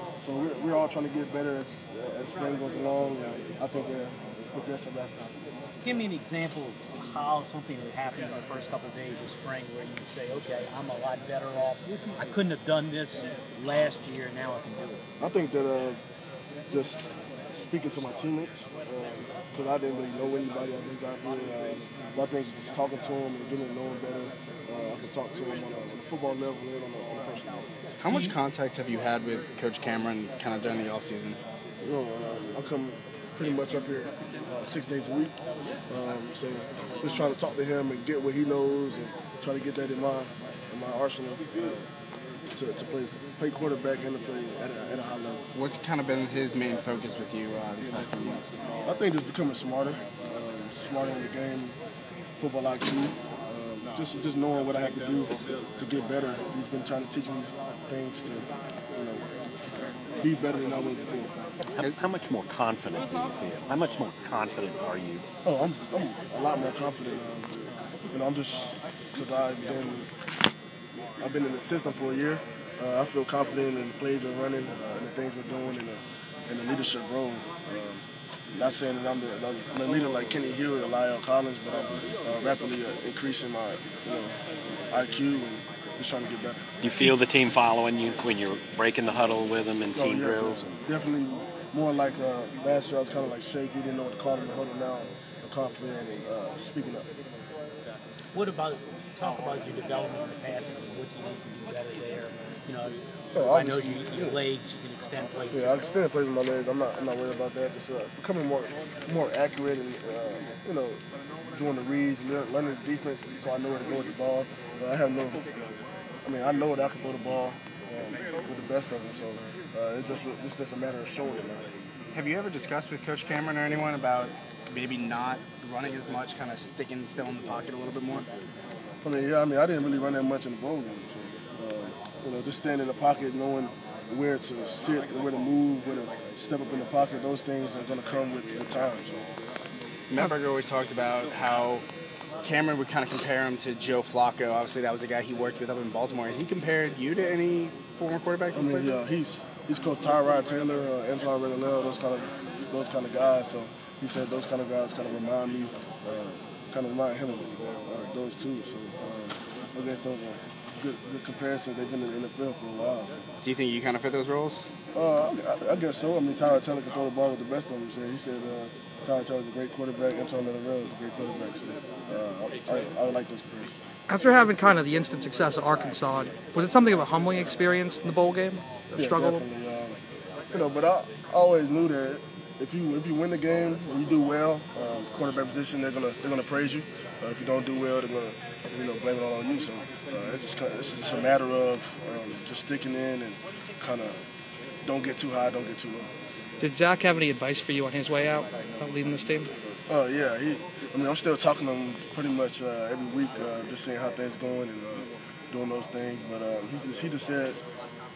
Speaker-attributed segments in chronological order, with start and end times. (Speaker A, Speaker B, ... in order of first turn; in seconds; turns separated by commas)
Speaker A: 0.2-5.2, Speaker B: 5.8-15.0, Speaker A: 15.2-16.0, Speaker A: 16.7-27.7, Speaker C: 28.0-31.4, Speaker B: 28.1-28.4, Speaker A: 31.8-35.3, Speaker A: 35.9-41.9, Speaker A: 42.5-45.4, Speaker C: 45.5-48.5, Speaker A: 48.9-51.8, Speaker A: 52.4-59.3, Speaker A: 60.2-61.3, Speaker D: 61.8-65.2, Speaker A: 65.4-67.5, Speaker A: 68.1-70.1, Speaker A: 71.2-86.6, Speaker D: 86.8-90.8, Speaker A: 90.0-97.1, Speaker B: 98.3-105.8, Speaker A: 103.3-104.4, Speaker A: 105.5-111.0, Speaker A: 111.5-115.5, Speaker A: 116.2-121.7, Speaker C: 122.1-128.3, Speaker A: 129.0-139.2, Speaker C: 140.1-141.8, Speaker C: 142.4-149.0, Speaker A: 148.5-163.2, Speaker C: 163.4-164.7, Speaker A: 164.9-173.8, Speaker E: 174.1-179.4, Speaker A: 178.9-180.0, Speaker A: 180.5-194.2, Speaker A: 194.8-196.1, Speaker E: 196.6-199.5, Speaker A: 199.9-207.6